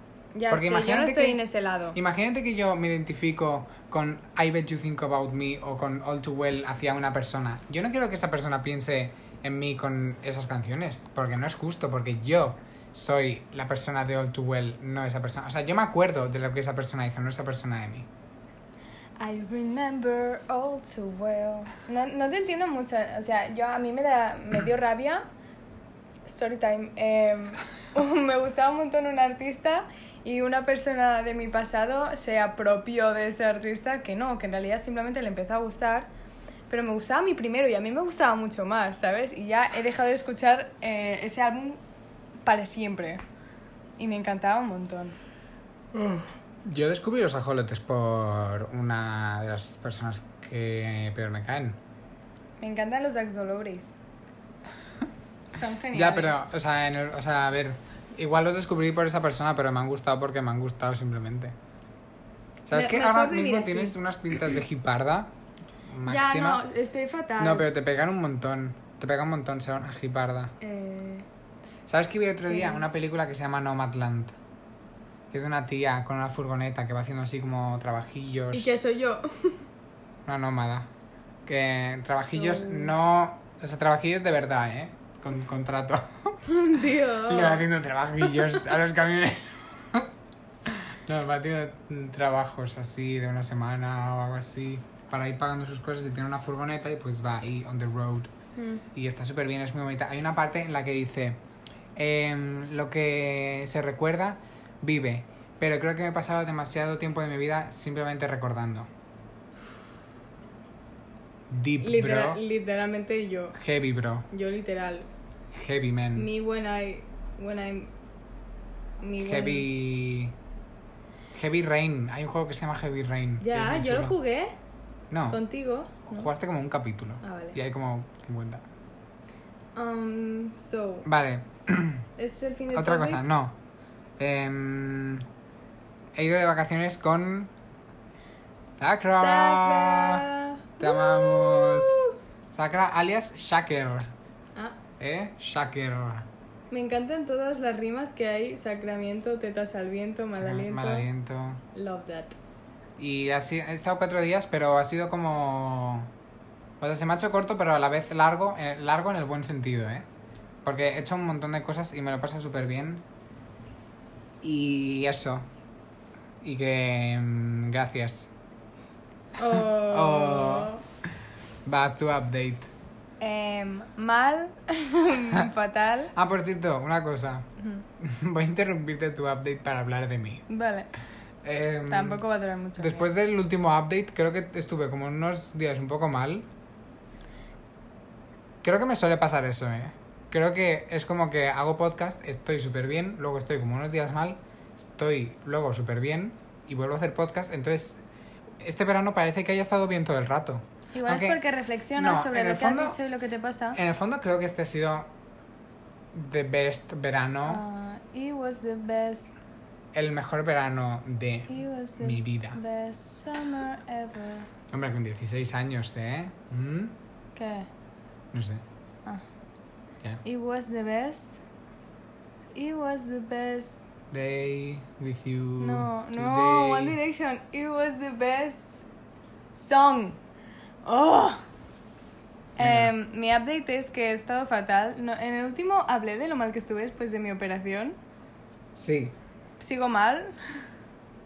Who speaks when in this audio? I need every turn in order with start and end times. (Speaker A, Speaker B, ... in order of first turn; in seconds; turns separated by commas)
Speaker A: 0.3-2.0, Speaker B: 0.5-1.4, Speaker B: 1.9-18.1, Speaker A: 19.2-25.2, Speaker A: 26.2-36.1, Speaker A: 36.7-41.8, Speaker A: 42.4-43.2, Speaker A: 44.0-45.2, Speaker B: 45.9-51.8, Speaker A: 52.6-54.0, Speaker A: 55.5-56.5, Speaker B: 55.9-61.5, Speaker B: 62.6-65.3, Speaker A: 62.7-64.0, Speaker B: 65.9-66.6, Speaker A: 66.1-67.7, Speaker B: 67.4-70.5, Speaker A: 70.6-71.3, Speaker B: 71.9-74.4, Speaker A: 72.5-72.9, Speaker B: 75.3-78.8, Speaker A: 78.5-79.7, Speaker B: 80.3-80.9, Speaker B: 81.5-86.4, Speaker A: 82.3-83.0, Speaker A: 86.4-87.7, Speaker B: 87.2-98.3, Speaker A: 98.6-98.8, Speaker B: 98.9-101.4, Speaker B: 102.0-108.9, Speaker B: 111.5-112.4, Speaker A: 111.8-113.6, Speaker B: 113.5-114.3, Speaker A: 114.3-115.1, Speaker B: 115.5-116.3, Speaker A: 116.2-117.9, Speaker A: 119.0-119.7, Speaker B: 119.2-120.3, Speaker B: 121.3-124.2, Speaker A: 123.4-124.5, Speaker B: 125.1-125.4, Speaker A: 125.3-126.3, Speaker B: 126.1-128.6, Speaker A: 127.2-127.6, Speaker A: 129.8-131.1, Speaker B: 131.1-132.1, Speaker A: 132.2-133.3, Speaker B: 132.7-133.6, Speaker B: 134.2-135.3, Speaker B: 136.2-137.5, Speaker B: 138.8-140.3, Speaker A: 139.2-142.2, Speaker B: 140.8-144.1, Speaker B: 145.0-146.3, Speaker A: 146.7-151.1, Speaker B: 150.3-151.6, Speaker A: 151.7-152.4, Speaker B: 153.0-156.1, Speaker B: 156.8-160.1, Speaker B: 160.7-163.1, Speaker B: 164.4-165.5, Speaker B: 166.4-168.3, Speaker A: 169.4-170.8, Speaker B: 169.4-170.8, Speaker B: 171.7-172.7, Speaker A: 173.2-176.1, Speaker B: 176.1-180.5, Speaker A: 177.6-177.8, Speaker A: 180.5-180.9, Speaker B: 181.4-182.2, Speaker A: 181.9-183.1, Speaker B: 182.8-186.5, Speaker B: 188.6-198.0, Speaker B: 198.6-201.4, Speaker A: 200.9-203.8, Speaker B: 202.0-203.0, Speaker B: 203.8-205.1, Speaker B: 206.1-207.6, Speaker A: 207.5-209.3, Speaker B: 209.9-212.6, Speaker A: 211.5-214.5, Speaker B: 214.7-216.9, Speaker A: 217.3-217.7, Speaker B: 218.3-218.6, Speaker A: 220.2-221.3, Speaker A: 222.5-223.8, Speaker B: 224.1-227.0, Speaker A: 225.6-228.9, Speaker A: 229.5-230.2, Speaker A: 230.8-231.4, Speaker A: 232.6-238.0, Speaker B: 232.6-232.9, Speaker B: 238.8-239.2, Speaker A: 239.6-240.6